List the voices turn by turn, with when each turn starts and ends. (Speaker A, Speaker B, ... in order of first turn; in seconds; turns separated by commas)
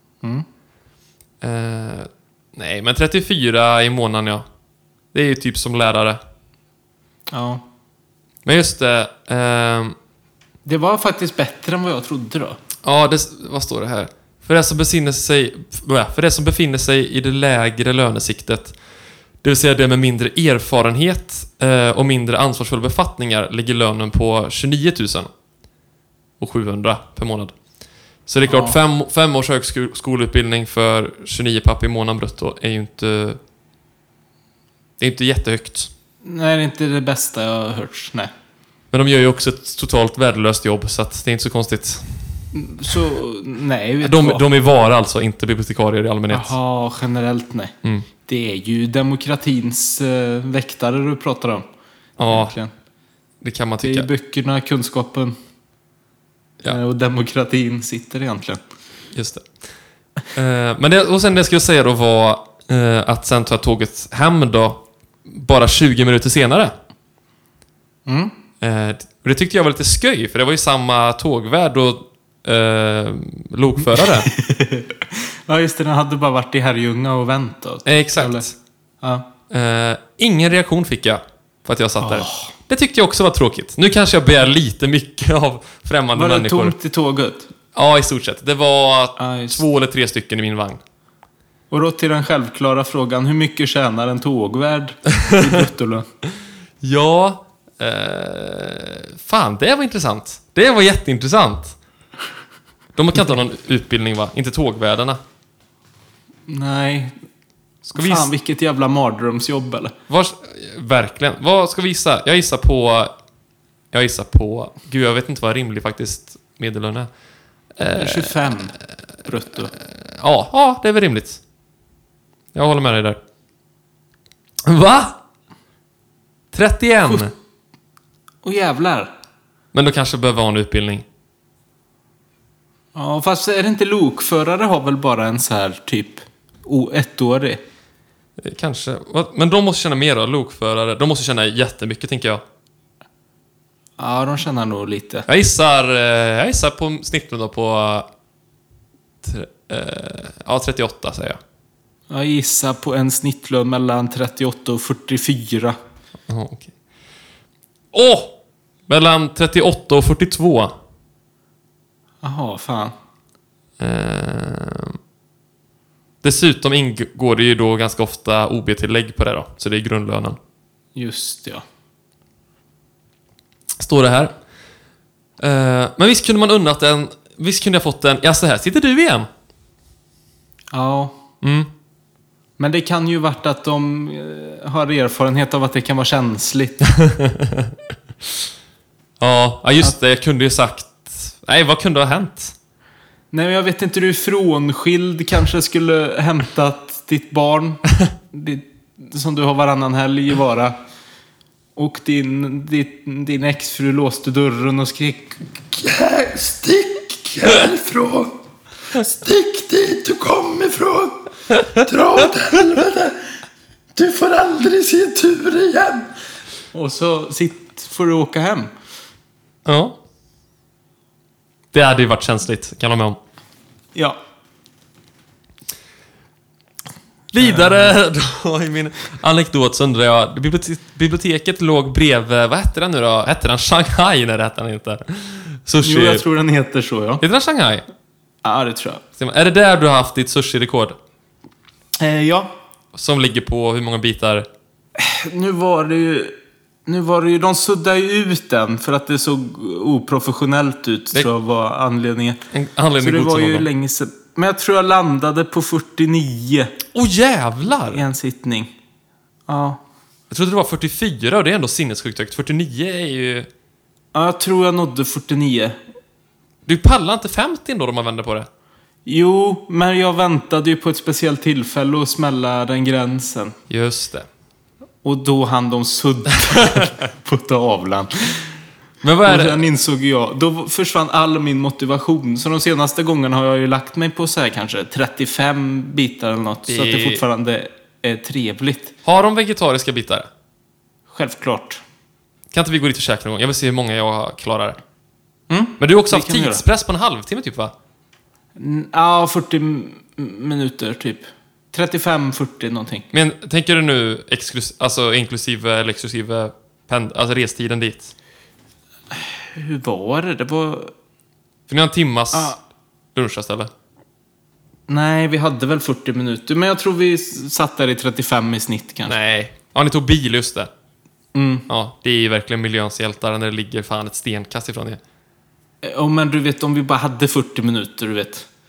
Speaker A: 1.4-4.4, Speaker A: 5.1-6.2, Speaker B: 7.3-7.6, Speaker A: 8.4-9.9, Speaker B: 10.6-12.6, Speaker A: 12.8-18.7, Speaker A: 19.4-25.3, Speaker A: 26.4-27.5, Speaker A: 28.3-33.4, Speaker B: 28.4-28.8, Speaker A: 35.0-35.9, Speaker B: 36.2-38.3, Speaker A: 38.9-42.2, Speaker B: 42.5-44.4, Speaker A: 44.0-46.5, Speaker B: 46.3-47.7, Speaker B: 48.2-51.6, Speaker A: 52.2-52.5, Speaker B: 52.2-52.7, Speaker A: 53.4-54.1, Speaker B: 53.8-55.4, Speaker B: 56.6-58.6, Speaker A: 59.1-59.5, Speaker A: 60.4-66.7, Speaker B: 68.1-68.3, Speaker A: 68.6-74.3, Speaker B: 74.0-79.2, Speaker A: 77.9-78.5, Speaker A: 79.5-86.8, Speaker B: 82.0-82.5, Speaker B: 86.1-87.5, Speaker A: 87.7-90.8, Speaker B: 89.2-89.6, Speaker B: 91.7-96.1, Speaker A: 95.2-95.6, Speaker A: 96.8-101.8, Speaker A: 102.9-105.2, Speaker B: 106.5-107.2, Speaker B: 107.8-109.9, Speaker A: 107.9-108.3, Speaker A: 110.1-113.1, Speaker A: 113.9-117.1, Speaker A: 117.8-118.5, Speaker B: 117.9-119.7, Speaker A: 119.7-121.4, Speaker A: 122.5-123.2, Speaker A: 124.7-125.2, Speaker A: 126.5-127.3, Speaker B: 127.0-127.3, Speaker B: 128.4-129.1, Speaker A: 129.7-131.0, Speaker B: 132.9-137.6, Speaker A: 138.4-142.4, Speaker B: 144.0-145.2, Speaker A: 145.3-148.1, Speaker A: 149.2-151.4, Speaker B: 152.1-155.8, Speaker A: 156.3-156.7, Speaker A: 157.9-158.3, Speaker A: 158.9-160.8, Speaker B: 162.2-162.9, Speaker A: 163.8-165.0, Speaker A: 166.2-170.4, Speaker B: 171.0-171.6, Speaker A: 173.8-174.3, Speaker A: 175.4-179.3, Speaker B: 180.7-181.2, Speaker A: 181.4-181.7, Speaker B: 182.6-186.8, Speaker A: 186.9-187.8, Speaker A: 189.2-192.5, Speaker B: 193.3-200.8, Speaker B: 201.8-205.6, Speaker C: 205.8-208.3, Speaker C: 209.0-211.2, Speaker C: 211.9-213.1, Speaker C: 214.0-216.1, Speaker B: 216.7-218.7, Speaker A: 219.6-220.0, Speaker A: 221.7-223.2, Speaker A: 227.3-236.2, Speaker B: 227.4-227.9, Speaker B: 235.8-237.2, Speaker A: 237.2-237.8, Speaker B: 238.4-239.0, Speaker A: 239.2-241.0, Speaker B: 242.0-242.5, Speaker A: 242.9-244.5, Speaker B: 245.0-246.3, Speaker B: 246.9-252.4, Speaker A: 252.5-253.7, Speaker B: 253.0-256.7, Speaker A: 256.9-258.0, Speaker B: 257.9-258.7, Speaker B: 259.5-259.8, Speaker A: 260.3-263.5, Speaker B: 264.1-265.8, Speaker A: 266.6-268.5, Speaker B: 269.0-273.6, Speaker A: 273.7-274.3, Speaker B: 275.0-278.5, Speaker A: 276.5-276.8, Speaker A: 279.0-279.6, Speaker B: 279.2-289.0, Speaker A: 286.7-287.2, Speaker A: 289.0-290.3, Speaker B: 291.1-291.8, Speaker A: 292.5-294.8, Speaker B: 295.5-296.6, Speaker A: 295.8-297.7, Speaker B: 298.6-303.0, Speaker A: 303.1-308.1, Speaker B: 309.1-310.9, Speaker A: 311.7-312.5, Speaker B: 312.3-312.6, Speaker A: 313.1-313.7, Speaker B: 314.9-319.1, Speaker A: 319.1-320.7, Speaker B: 321.4-321.7, Speaker A: 321.7-325.0, Speaker B: 325.8-328.5